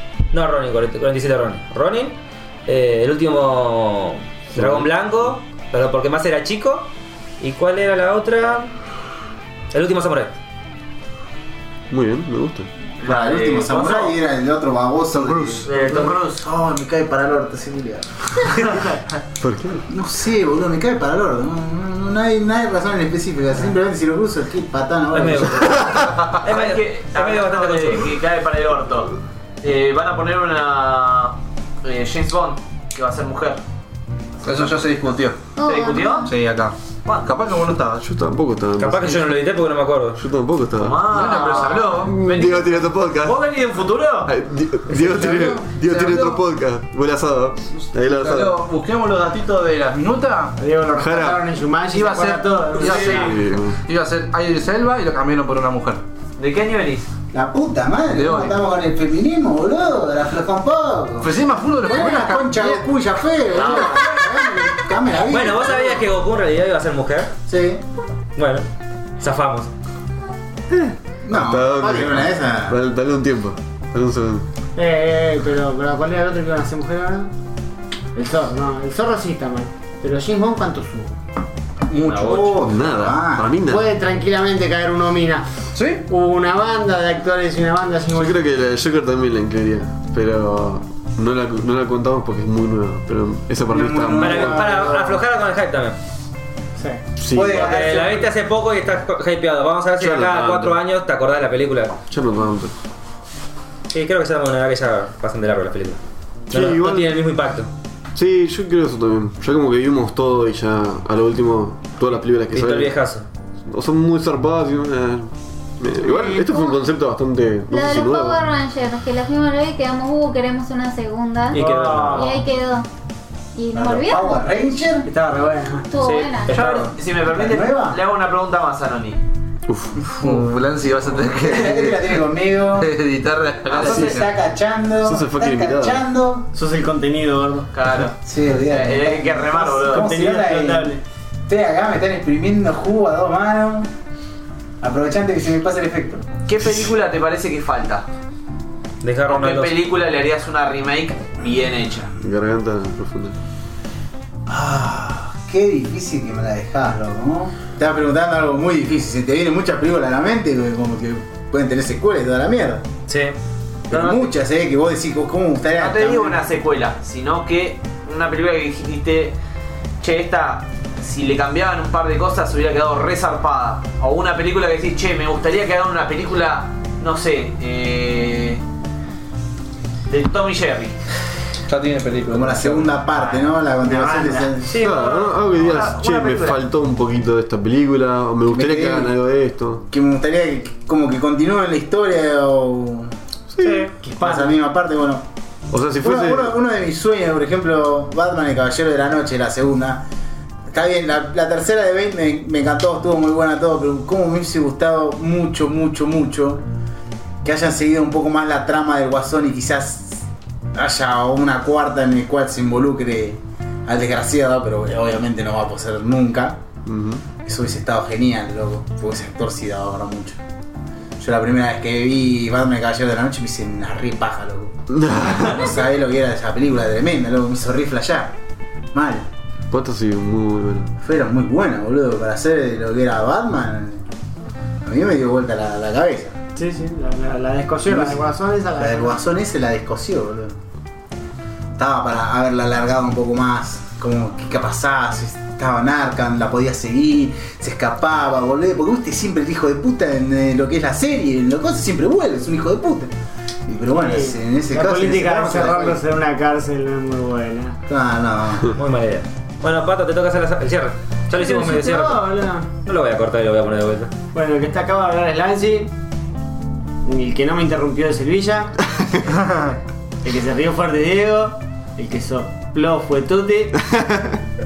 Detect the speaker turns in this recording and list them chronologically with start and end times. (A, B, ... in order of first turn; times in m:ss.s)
0:00.3-0:06.9 A
0:04.6-0:04.9 B
0:07.4-0:08.7 A
0:09.7-0:10.4 A
0:11.9-0:12.7 B
0:13.0-0:14.2 C
0:13.0-0:18.6 D
0:15.1-0:15.6 E
0:15.6-0:16.4 C
0:19.4-0:19.8 B
0:19.9-0:25.9 D
0:25.1-0:28.1 A
0:26.4-0:33.6 C
0:34.4-0:35.4 E
0:35.6-0:36.3 F
0:35.6-0:36.3 C
0:36.3-0:38.0 E
0:37.0-0:37.3 C
0:38.0-0:39.2 B
0:38.8-0:40.2 A
0:40.2-0:41.4 B
0:40.8-0:44.3 C
0:41.1-0:42.2 E
0:42.0-0:43.4 B
0:44.2-0:48.6 B
0:44.9-0:46.4 E
0:48.0-0:50.6 E
0:50.6-0:53.3 G
0:50.9-0:51.4 B
0:51.9-0:56.0 E
0:53.1-0:53.8 B
0:56.4-0:57.1 C
0:57.3-1:06.0 D
0:58.1-0:58.6 E
1:01.2-1:02.8 E
1:03.5-1:04.2 C
1:03.7-1:04.0 E
1:05.2-1:07.3 A
1:07.5-1:07.8 D
1:08.4-1:08.7 A
1:09.2-1:09.7 A
1:10.7-1:14.4 B
1:11.2-1:12.8 D
1:14.7-1:17.3 G
1:18.1-1:21.2 G
1:21.9-1:23.6 D
1:22.0-1:22.6 C
1:22.6-1:23.9 B
1:23.6-1:25.5 G
1:25.7-1:26.0 E
1:26.0-1:28.4 G
1:28.1-1:34.9 B
1:33.7-1:35.2 D
1:34.2-1:36.0 A
1:36.8-1:37.0 G
1:37.2-1:37.7 B
1:37.3-1:38.3 D
1:37.4-1:42.0 A
1:40.0-1:40.8 B
1:42.1-1:42.7 B
1:43.9-1:46.0 A
1:46.5-1:47.2 B
1:46.5-1:47.7 A
1:48.1-1:52.9 B
1:52.5-1:53.2 A
1:53.6-1:58.5 B
1:56.0-1:56.5 G
1:57.7-2:02.8 F
2:01.5-2:02.4 A
2:01.5-2:02.4 G
2:03.5-2:04.4 F
2:03.7-2:05.1 D
2:05.0-2:05.9 G
2:05.9-2:06.6 F
2:06.0-2:06.9 A
2:06.5-2:09.2 C
2:06.5-2:06.9 E
2:07.1-2:08.0 D
2:09.7-2:10.4 B
2:10.0-2:12.1 E
2:11.2-2:12.9 D
2:12.8-2:14.3 E
2:13.6-2:16.5 D
2:15.0-2:16.0 B
2:16.5-2:17.7 G
2:17.7-2:20.1 C
2:18.2-2:21.0 D
2:19.8-2:21.0 G
2:21.5-2:23.9 D
2:24.8-2:26.2 D
2:26.5-2:28.0 C
2:29.0-2:29.8 A
2:29.3-2:32.1 C
2:32.2-2:33.4 B
2:34.5-2:42.8 D
2:43.1-2:43.3 A
2:43.9-2:46.4 D
2:43.9-2:44.2 C
2:45.7-2:49.4 C
2:50.0-2:58.6 C
3:00.1-3:01.0 C
3:01.7-3:02.9 E
3:02.3-3:04.7 D
3:03.1-3:03.4 C
3:03.8-3:04.4 G
3:04.3-3:06.6 C
3:04.8-3:09.8 B
3:08.5-3:09.1 D
3:09.9-3:13.1 D
3:13.5-3:13.9 B
3:13.6-3:13.9 A
3:14.0-3:14.6 G
3:14.2-3:15.2 D
3:15.7-3:16.6 B
3:16.0-3:20.0 D
3:20.7-3:26.6 D
3:27.4-3:36.6 D
3:36.8-3:37.2 B
3:37.4-3:40.4 D
3:41.2-3:44.8 D
3:44.9-3:45.7 B
3:45.3-3:48.3 D
3:48.9-3:49.3 D
3:49.7-3:50.9 B
3:51.0-3:54.0 D
3:54.8-3:56.3 D
3:56.6-3:59.2 G
3:57.8-4:00.5 D
4:01.8-4:13.1 D
4:13.7-4:16.0 D
4:13.9-4:17.8 G
4:17.9-4:18.8 D
4:18.7-4:22.3 A
4:21.3-4:22.7 G
4:22.8-4:24.1 A
4:24.3-4:25.9 G
4:27.0-4:28.8 G
4:30.2-4:33.8 G
4:34.0-4:34.2 B